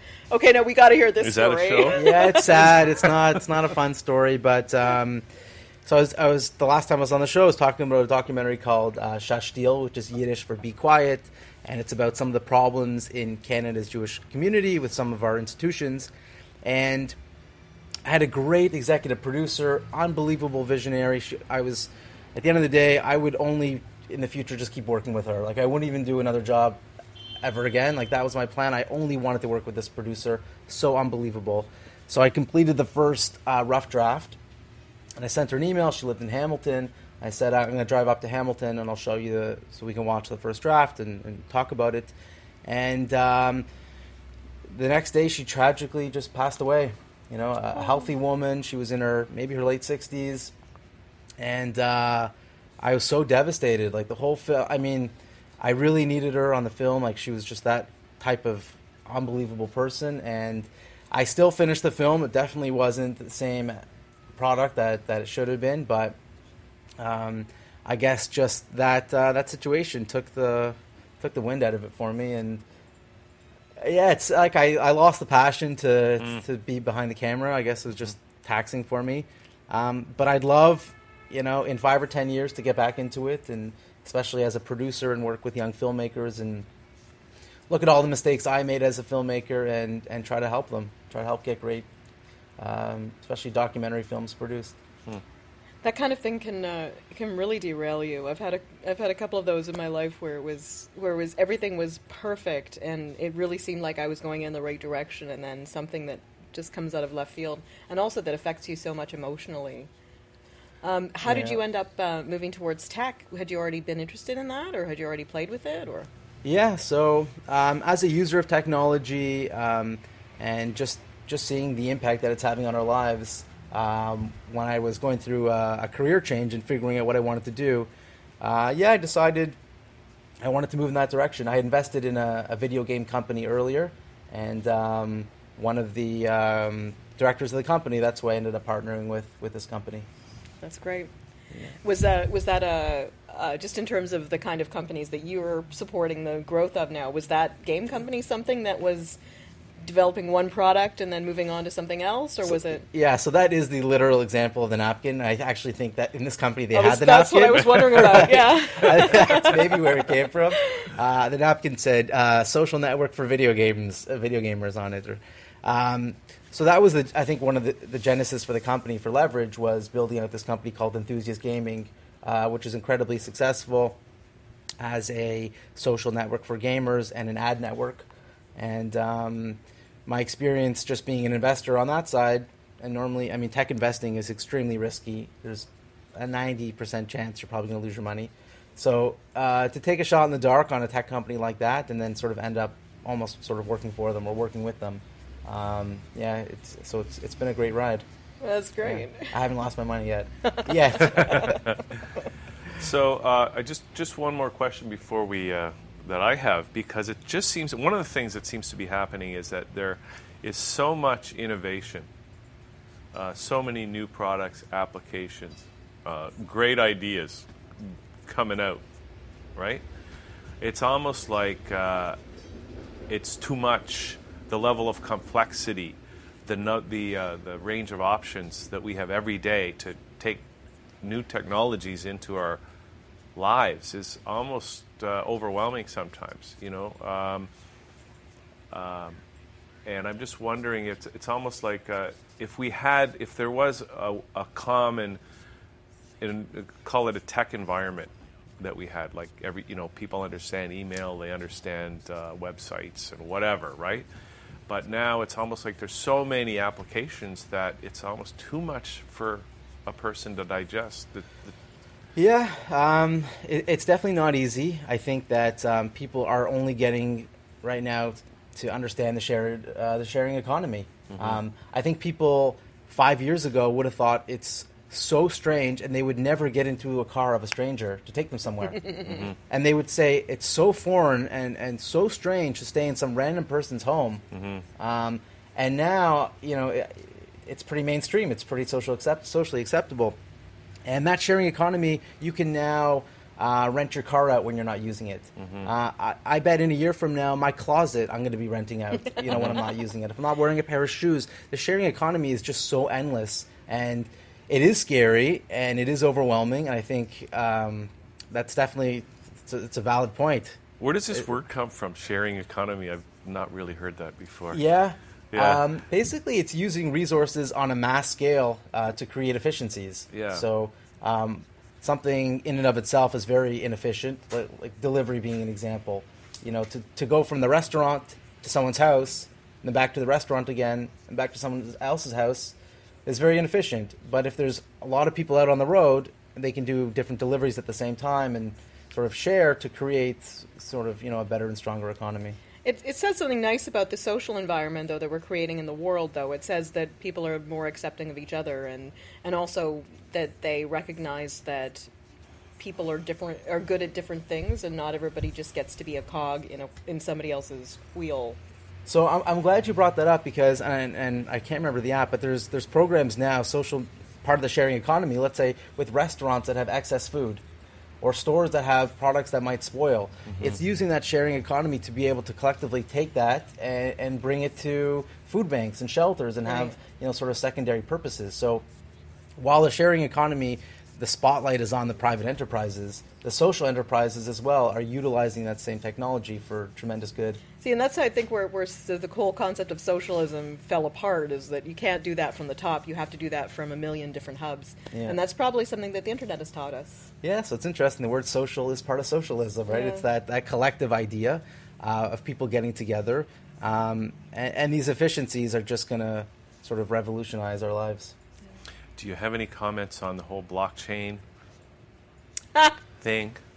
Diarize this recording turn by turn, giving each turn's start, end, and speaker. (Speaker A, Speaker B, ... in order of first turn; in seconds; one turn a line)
Speaker A: 0.3-2.8
Speaker B: 1.2-2.7
Speaker C: 1.9-5.2
Speaker C: 5.8-16.1
Speaker C: 16.6-17.2
Speaker C: 18.0-26.8
Speaker C: 27.4-34.4
Speaker C: 35.2-42.1
Speaker C: 42.6-43.7
Speaker C: 44.7-50.5
Speaker A: 47.8-48.1
Speaker C: 51.4-63.8
Speaker C: 64.3-66.2
Speaker C: 67.0-72.6
Speaker C: 73.8-86.7
Speaker C: 87.7-91.9
Speaker C: 92.6-94.8
Speaker A: 95.8-109.9
Speaker A: 110.8-116.1
Speaker C: 111.2-111.6
Speaker C: 116.4-129.6
Speaker C: 130.4-140.1
Speaker A: 140.6-141.1
Speaker A: 141.8-149.2
Speaker A: 149.8-152.8
Speaker C: 152.4-174.0
Speaker A: 156.7-160.1
Speaker C: 174.8-198.0
Speaker A: 198.4-199.4
Speaker C: 198.8-201.6
Speaker A: 200.5-201.6
Speaker B: 201.0-201.8
Speaker B: 202.7-212.1
Speaker B: 213.1-218.8
Speaker B: 219.6-219.8
Speaker B: 220.6-222.2
Speaker B: 223.1-230.4
Speaker B: 231.0-232.6
Speaker B: 233.3-237.5
Speaker B: 238.7-239.2
Speaker B: 239.8-245.2
Speaker B: 246.2-254.1
Speaker B: 254.7-261.5
Speaker C: 262.1-284.2
Speaker B: 271.1-271.4
Speaker B: 279.0-279.4
Speaker B: 284.3-284.6
Speaker C: 284.8-290.2
Speaker C: 290.8-310.6
Speaker B: 295.4-295.7
Speaker B: 299.3-299.6
Speaker B: 310.8-314.6
Speaker C: 314.5-332.5
Speaker B: 315.3-315.6
Speaker B: 320.1-320.4
Speaker C: 333.1-342.4
Speaker A: 342.6-351.9
Speaker A: 352.6-358.4
Speaker C: 358.9-367.4
Speaker C: 368.0-378.6
Speaker B: 370.3-370.6
Speaker A: 376.5-376.8
Speaker C: 379.4-387.4
Speaker A: 387.6-397.1
Speaker C: 394.9-395.2
Speaker C: 397.2-408.1
Speaker A: 399.6-400.0
Speaker B: 409.0-411.2
Speaker B: 413.0-413.4